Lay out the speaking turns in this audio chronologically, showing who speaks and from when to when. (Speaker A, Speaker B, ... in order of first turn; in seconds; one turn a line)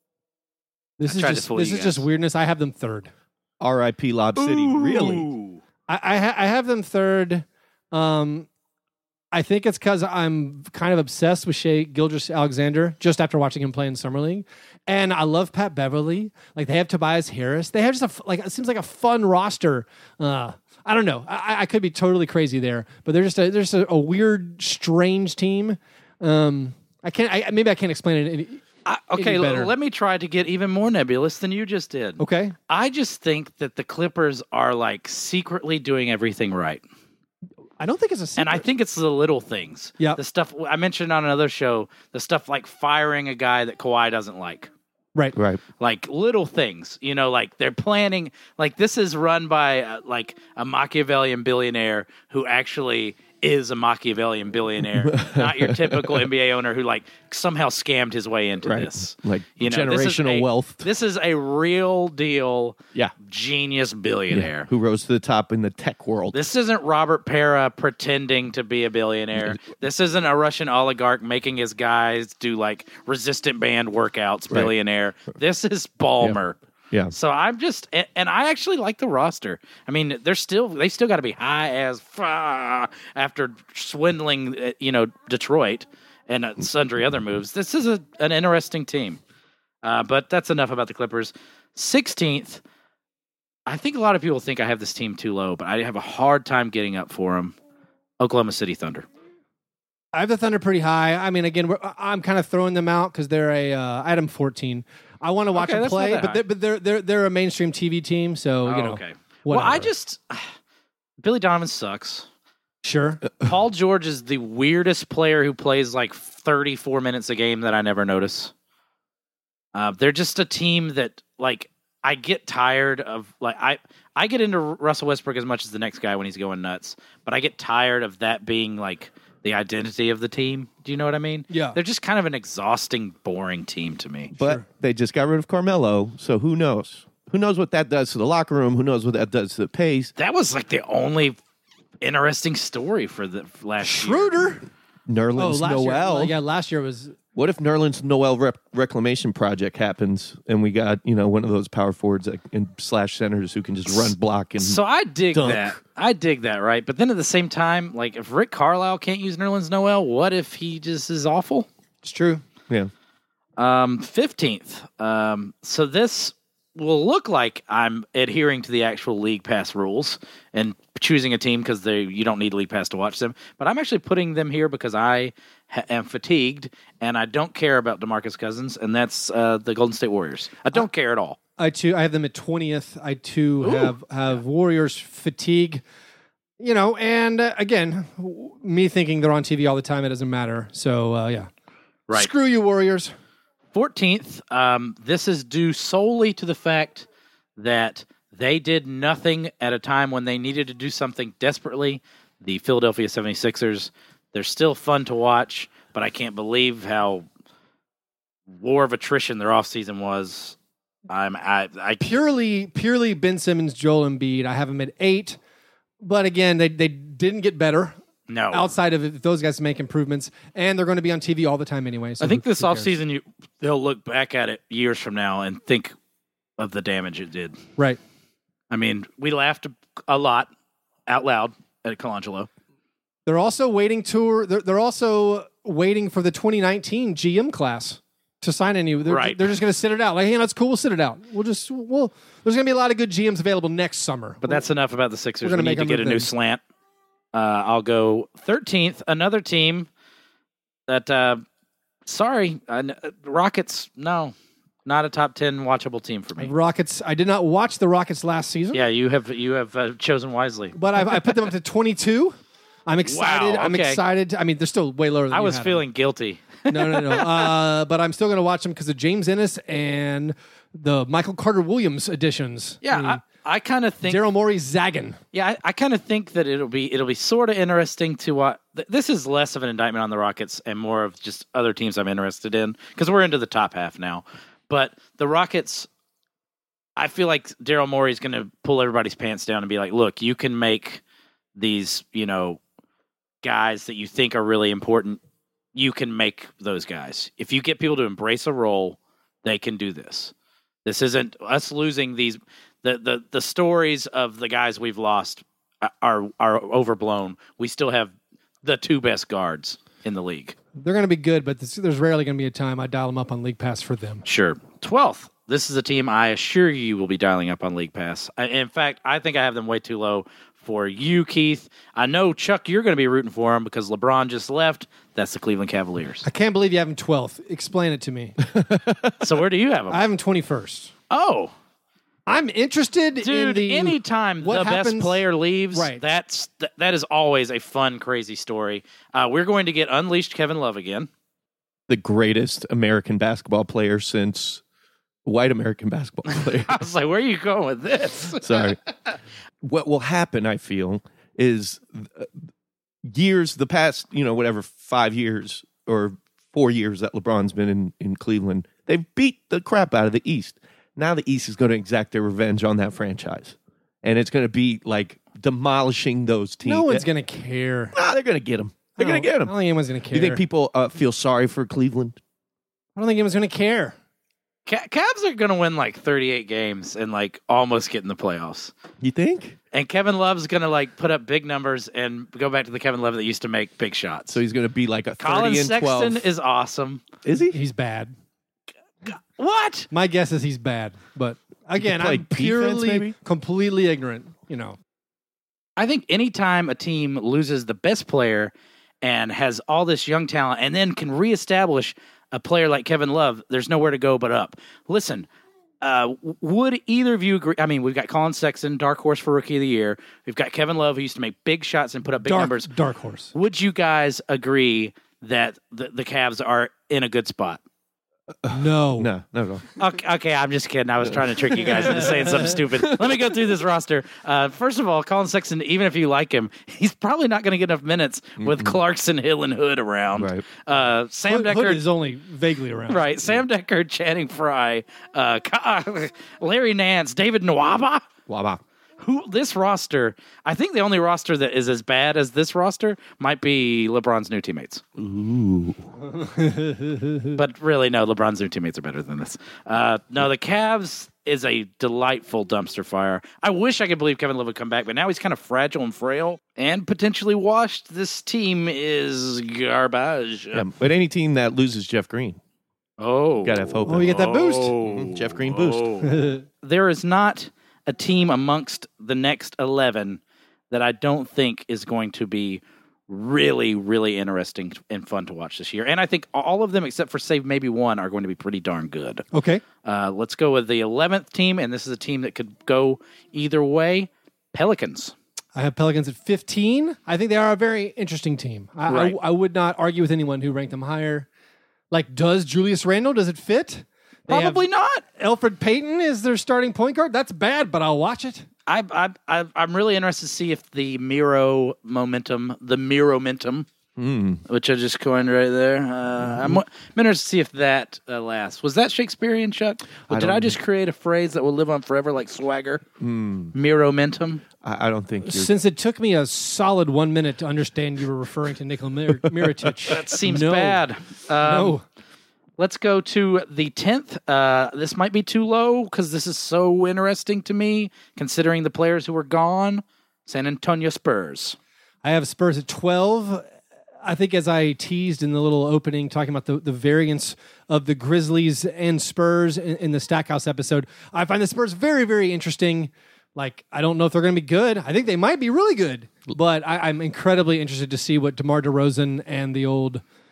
Speaker A: 1.0-3.1
Speaker B: 1.1-2.0
Speaker C: 3.6-5.3
Speaker B: 4.4-5.6
Speaker A: 5.9-8.5
Speaker A: 9.3-28.6
Speaker B: 28.9-36.8
Speaker A: 29.1-29.7
Speaker A: 32.2-32.5
Speaker A: 37.8-38.6
Speaker B: 38.4-44.7
Speaker C: 45.3-45.6
Speaker B: 45.8-64.7
Speaker C: 54.9-56.2
Speaker C: 58.6-60.9
Speaker C: 64.3-66.4
Speaker B: 66.3-76.6
Speaker B: 77.1-89.2
Speaker B: 89.8-92.6
Speaker B: 93.7-97.5
Speaker B: 98.2-99.0
Speaker A: 100.1-109.9
Speaker B: 105.5-106.4
Speaker B: 108.6-110.5
Speaker B: 111.2-112.2
Speaker A: 112.8-113.2
Speaker B: 113.4-118.5
Speaker B: 119.7-134.3
Speaker A: 131.5-131.8
Speaker C: 134.3-140.1
Speaker B: 140.2-141.4
Speaker B: 142.0-144.5
Speaker A: 143.8-144.6
Speaker C: 145.1-146.3
Speaker A: 145.4-147.2
Speaker C: 147.3-154.8
Speaker B: 154.0-161.7
Speaker C: 155.3-155.7
Speaker A: 162.0-162.4
Speaker B: 163.6-181.4
Speaker A: 181.6-185.8
Speaker B: 183.6-183.9
Speaker A: 186.6-191.5
Speaker A: 192.1-193.1
Speaker B: 193.7-197.1
Speaker B: 197.6-207.2
Speaker B: 208.5-210.6
Speaker B: 211.1-212.2
Speaker A: 212.0-215.4
Speaker A: 216.0-217.9
Speaker B: 218.3-218.7
Speaker A: 218.5-222.9
Speaker B: 222.2-225.9
Speaker B: 226.6-227.6
Speaker B: 228.7-230.5
Speaker B: 231.1-232.5
Speaker A: 233.2-244.6
Speaker B: 239.1-239.5
Speaker B: 244.4-246.6
Speaker A: 245.4-246.3
Speaker B: 247.3-249.9
Speaker B: 250.9-251.4
Speaker B: 252.1-254.3
Speaker B: 254.8-256.5
Speaker A: 256.4-258.8
Speaker B: 258.7-260.8
Speaker A: 260.8-265.8
Speaker B: 263.0-264.0
Speaker B: 265.3-267.5
Speaker A: 266.7-273.2
Speaker B: 272.8-274.2
Speaker A: 274.1-275.2
Speaker B: 275.3-285.9
Speaker B: 287.0-291.0
Speaker B: 291.6-292.6
Speaker B: 293.4-295.2
Speaker B: 295.7-300.3
Speaker B: 300.9-310.6
Speaker A: 310.8-314.2
Speaker B: 314.2-326.2
Speaker A: 326.2-328.4
Speaker C: 328.5-329.2
Speaker B: 329.2-330.0
Speaker A: 329.9-330.9
Speaker B: 331.1-331.5
Speaker A: 332.3-336.0
Speaker B: 333.2-341.1
Speaker C: 341.9-344.6
Speaker C: 345.2-346.8
Speaker B: 346.4-348.7
Speaker C: 348.4-348.8
Speaker C: 349.6-352.4
Speaker C: 353.0-367.1
Speaker A: 366.6-368.0
Speaker C: 367.9-369.5
Speaker A: 369.0-370.4
Speaker C: 370.1-372.2
Speaker A: 372.9-373.9
Speaker B: 374.6-378.7
Speaker C: 379.0-379.6
Speaker B: 379.7-384.4
Speaker C: 384.3-386.2
Speaker B: 385.2-387.0
Speaker C: 387.2-387.6
Speaker A: 387.5-388.1
Speaker B: 389.1-389.9
Speaker A: 389.9-394.8
Speaker C: 391.8-393.1
Speaker B: 395.8-405.3
Speaker B: 405.8-412.7
Speaker A: 412.2-413.3
Speaker B: 413.3-417.6
Speaker C: 418.4-419.7
Speaker A: 418.5-419.1
Speaker B: 419.8-431.8
Speaker C: 421.1-423.4
Speaker C: 428.4-428.8
Speaker C: 430.1-430.4
Speaker A: 431.3-433.0
Speaker B: 432.9-438.1
Speaker C: 438.3-438.6
Speaker B: 439.0-444.8
Speaker C: 445.0-445.9
Speaker A: 446.2-447.3
Speaker B: 447.4-460.6
Speaker C: 460.5-462.4
Speaker B: 463.0-479.2
Speaker C: 463.4-464.3
Speaker A: 463.9-464.7
Speaker C: 464.8-465.9
Speaker A: 466.0-466.4
Speaker A: 479.3-479.6
Speaker B: 479.8-485.1
Speaker A: 485.6-491.3
Speaker B: 488.9-489.1
Speaker A: 491.9-498.5
Speaker B: 494.3-495.0
Speaker B: 498.7-503.6
Speaker C: 504.0-504.4
Speaker B: 504.5-512.8
Speaker C: 506.2-506.6
Speaker C: 510.1-510.6
Speaker C: 513.0-513.5
Speaker B: 513.5-514.4
Speaker C: 514.6-515.5
Speaker A: 515.2-520.8
Speaker B: 519.9-521.8
Speaker A: 521.4-521.8
Speaker B: 522.6-531.6
Speaker A: 532.0-533.4
Speaker A: 534.0-550.0